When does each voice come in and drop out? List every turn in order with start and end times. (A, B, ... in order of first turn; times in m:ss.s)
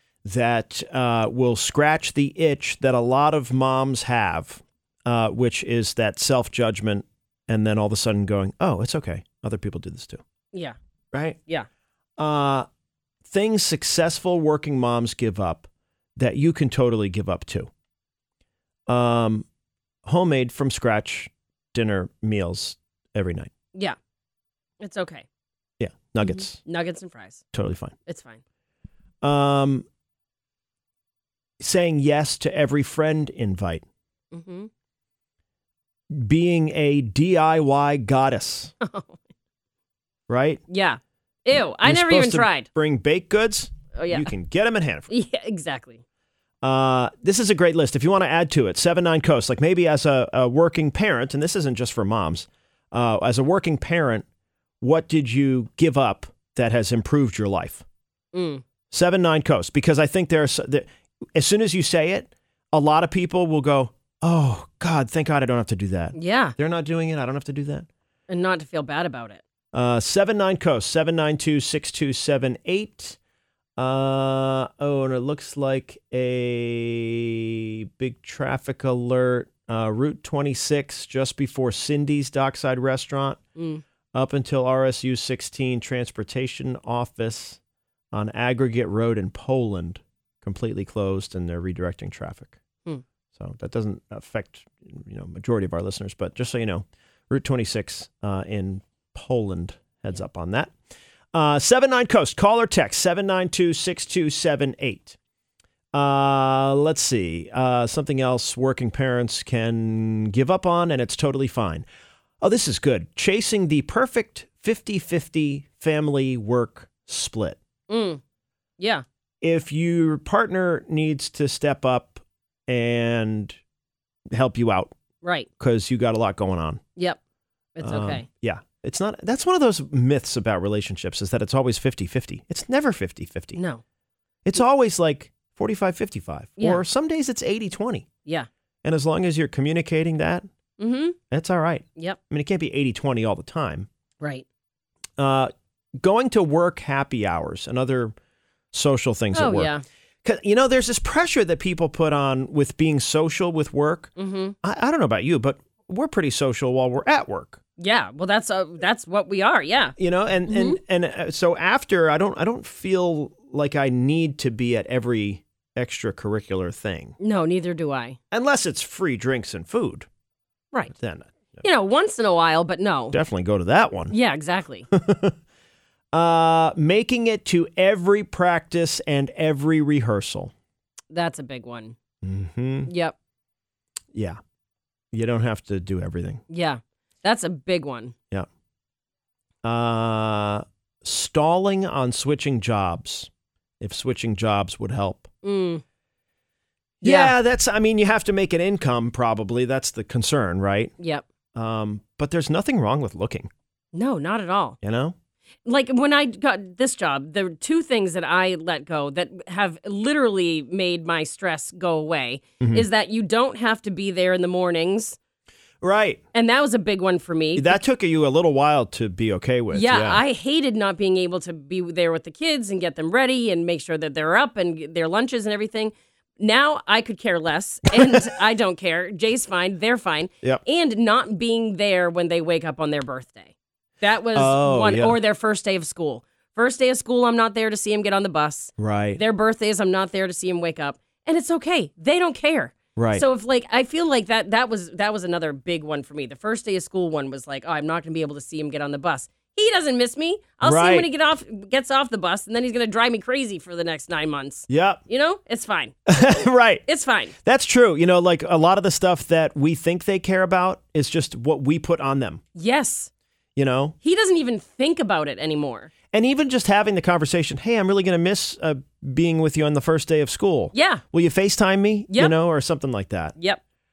0:00.2-0:10.2 A
0:11.1-0:11.4 A
0:12.2-0:12.7 A
0:13.2-0:17.7 A
0:18.9-0:19.5 A
0:20.0-0:23.5 A
0:24.8-0:25.3 B
0:25.8-0:26.6 A
0:26.2-0:27.4 B
0:27.5-0:27.9 A
0:28.1-0:28.4 B
0:29.2-0:29.8 A
0:31.6-0:33.8 A
0:34.3-0:34.7 B
0:36.1-0:38.7 A
0:38.8-0:39.2 B
0:40.3-0:40.6 A
0:40.7-0:42.7 B
0:41.6-0:45.1 A
0:44.0-0:44.3 B
0:45.1-0:46.0 B
0:46.6-0:54.3 A
0:54.8-0:57.8 A
0:58.3-0:58.6 B
0:58.9-1:07.9 A
1:06.1-1:06.6 B
1:08.3-1:09.4 B
1:09.7-1:13.2 A
1:13.8-1:23.4 A
1:23.6-1:23.8 B
1:24.1-1:27.6 A
1:28.1-1:32.6 A
1:33.3-1:40.7 A
1:41.3-1:45.2 A
1:45.9-1:51.9 A
1:52.4-1:57.6 A
1:57.9-1:58.2 B
1:58.8-1:59.0 B
1:59.4-2:03.6 A
2:04.3-2:04.9 A
2:05.2-2:05.5 B
2:05.6-2:06.8 A
2:07.8-2:08.3 B
2:07.8-2:13.6 A
2:13.6-2:13.8 B
2:14.4-2:18.1 A
2:18.8-2:20.5 A
2:20.8-2:21.2 B
2:21.3-2:23.9 A
2:24.2-2:24.4 B
2:25.2-2:28.1 A
2:28.7-2:29.7 A
2:29.3-2:29.8 B
2:30.2-2:37.6 A
2:34.2-2:34.6 B
2:37.8-2:39.9 B
2:40.0-2:47.2 A
2:40.5-2:40.8 B
2:47.2-2:48.2 B
2:48.3-2:50.1 A
2:50.9-2:51.6 A
2:51.6-2:53.2 B
2:53.1-2:54.2 A
2:54.1-2:54.9 B
2:54.9-2:55.4 A
2:56.1-3:00.5 A
3:01.1-3:02.0 B
3:02.2-3:02.9 A
3:02.9-3:03.2 B
3:04.1-3:04.4 A
3:05.1-3:06.4 A
3:06.5-3:08.2 B
3:09.6-3:15.3 A
3:15.4-3:15.8 B
3:17.0-3:21.0 A
3:17.0-3:17.3 B
3:21.0-3:21.2 B
3:21.6-3:23.5 A
3:23.9-3:24.8 B
3:24.8-3:25.2 A
3:25.7-3:35.2 B
3:32.6-3:32.9 A
3:35.8-3:36.2 A
3:36.3-3:37.8 B
3:37.6-3:40.2 A
3:39.7-4:16.0 B
3:54.3-3:55.2 A
3:58.8-3:59.2 A
4:03.0-4:03.2 A
4:10.6-4:11.1 A
4:14.7-4:15.0 A
4:16.1-4:16.8 A
4:16.9-4:17.4 B
4:17.4-4:22.4 A
4:22.6-4:23.1 B
4:23.6-4:24.0 A
4:24.0-4:25.9 B
4:26.1-4:33.4 A
4:30.7-4:31.0 B
4:32.1-4:32.4 B